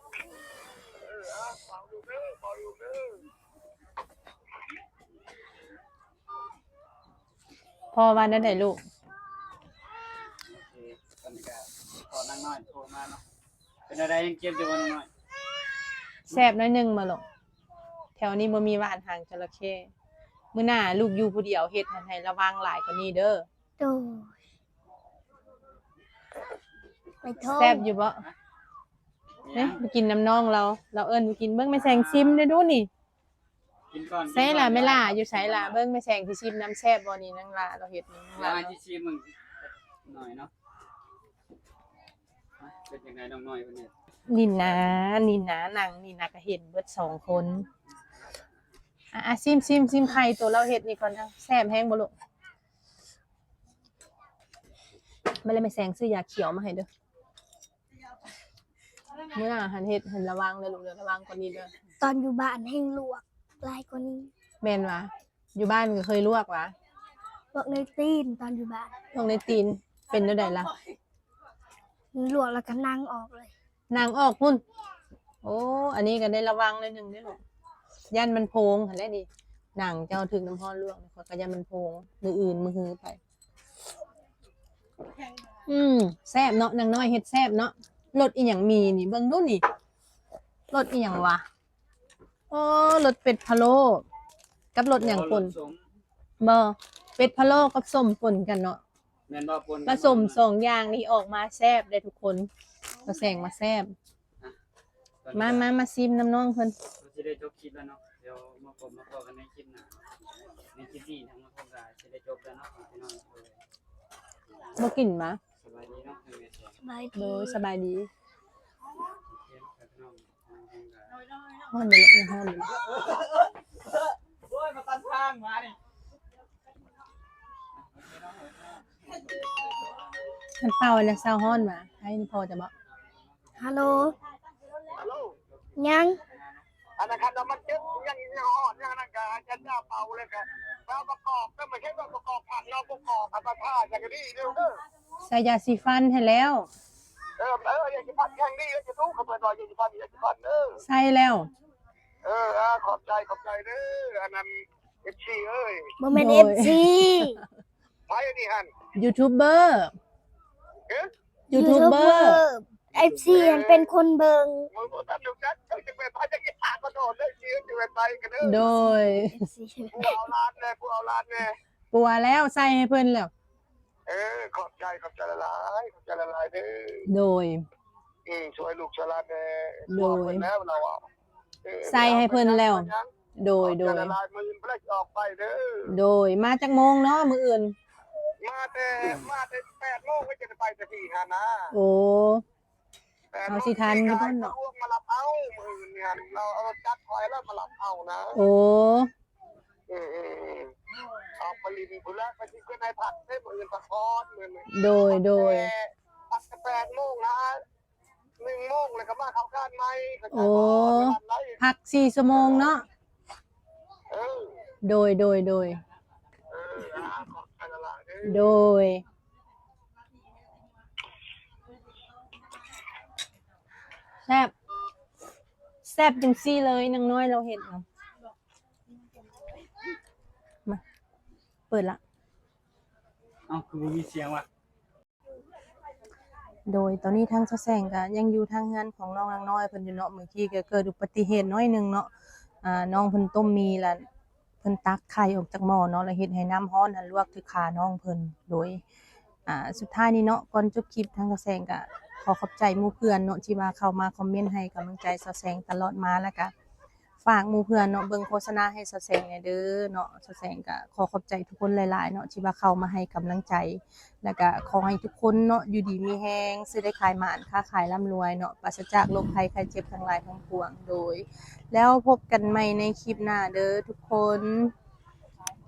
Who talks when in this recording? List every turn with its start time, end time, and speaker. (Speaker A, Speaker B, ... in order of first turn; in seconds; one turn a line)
Speaker A: 1.0-3.2
Speaker B: 7.9-8.8
Speaker C: 10.5-13.2
Speaker C: 13.9-15.1
Speaker B: 16.3-17.2
Speaker B: 18.2-19.9
Speaker B: 20.5-23.4
Speaker D: 23.8-24.3
Speaker D: 27.2-27.9
Speaker B: 27.5-28.2
Speaker C: 29.4-29.8
Speaker B: 29.5-32.9
Speaker C: 31.7-32.4
Speaker C: 33.9-35.8
Speaker B: 34.3-38.8
Speaker C: 38.4-40.5
Speaker C: 42.6-43.9
Speaker B: 44.3-47.7
Speaker B: 49.1-52.1
Speaker B: 55.4-56.9
Speaker B: 59.3-61.7
Speaker D: 62.0-64.3
Speaker B: 64.6-66.7
Speaker D: 67.5-69.0
Speaker B: 69.1-70.7
Speaker D: 72.1-73.5
Speaker B: 73.9-74.6
Speaker B: 75.4-77.4
Speaker B: 78.1-83.2
Speaker B: 85.7-89.6
Speaker B: 90.7-91.4
Speaker B: 92.5-94.0
Speaker B: 94.7-95.5
Speaker C: 94.9-95.8
Speaker B: 96.4-98.8
Speaker C: 97.4-97.7
Speaker C: 99.3-100.4
Speaker B: 99.8-102.5
Speaker B: 103.0-103.9
Speaker C: 105.2-105.7
Speaker B: 105.3-106.7
Speaker C: 107.0-113.6
Speaker B: 114.8-115.4
Speaker C: 115.6-116.7
Speaker D: 116.8-117.6
Speaker B: 117.1-118.1
Speaker C: 119.3-121.2
Speaker B: 121.7-122.7
Speaker C: 122.6-125.8
Speaker C: 127.8-129.3
Speaker B: 130.6-132.7
Speaker C: 133.1-134.2
Speaker D: 133.5-134.1
Speaker C: 134.7-136.6
Speaker A: 135.0-135.3
Speaker D: 135.8-136.2
Speaker A: 137.0-144.8
Speaker B: 145.2-146.7
Speaker A: 147.4-150.8
Speaker B: 150.8-151.5
Speaker A: 152.2-154.5
Speaker A: 155.0-155.9
Speaker D: 156.0-157.4
Speaker B: 156.1-157.3
Speaker A: 158.1-158.7
Speaker B: 159.0-159.9
Speaker B: 161.5-162.4
Speaker D: 161.5-164.7
Speaker C: 162.9-163.4
Speaker A: 163.3-163.9
Speaker A: 164.7-168.7
Speaker B: 168.4-169.4
Speaker D: 168.6-170.2
Speaker A: 169.9-171.6
Speaker B: 171.9-173.3
Speaker A: 174.1-177.1
Speaker B: 177.1-177.6
Speaker A: 178.2-181.0
Speaker B: 179.9-180.5
Speaker A: 181.6-183.1
Speaker B: 181.9-184.1
Speaker A: 183.6-185.9
Speaker B: 185.9-187.7
Speaker A: 188.4-191.7
Speaker B: 191.7-192.4
Speaker A: 193.3-198.3
Speaker B: 193.5-194.5
Speaker B: 198.3-199.1
Speaker A: 199.9-200.7
Speaker A: 201.4-207.6
Speaker B: 204.7-205.7
Speaker A: 208.4-211.6
Speaker B: 210.3-212.8
Speaker A: 212.3-212.7
Speaker A: 214.1-214.6
Speaker B: 214.8-215.8
Speaker A: 216.5-218.4
Speaker B: 218.2-219.0
Speaker B: 224.3-224.5
Speaker B: 225.8-227.8
Speaker B: 231.7-232.0
Speaker C: 233.5-234.5
Speaker B: 236.7-242.1
Speaker B: 242.6-244.1
Speaker B: 244.6-248.8
Speaker B: 249.4-256.5
Speaker B: 257.2-274.7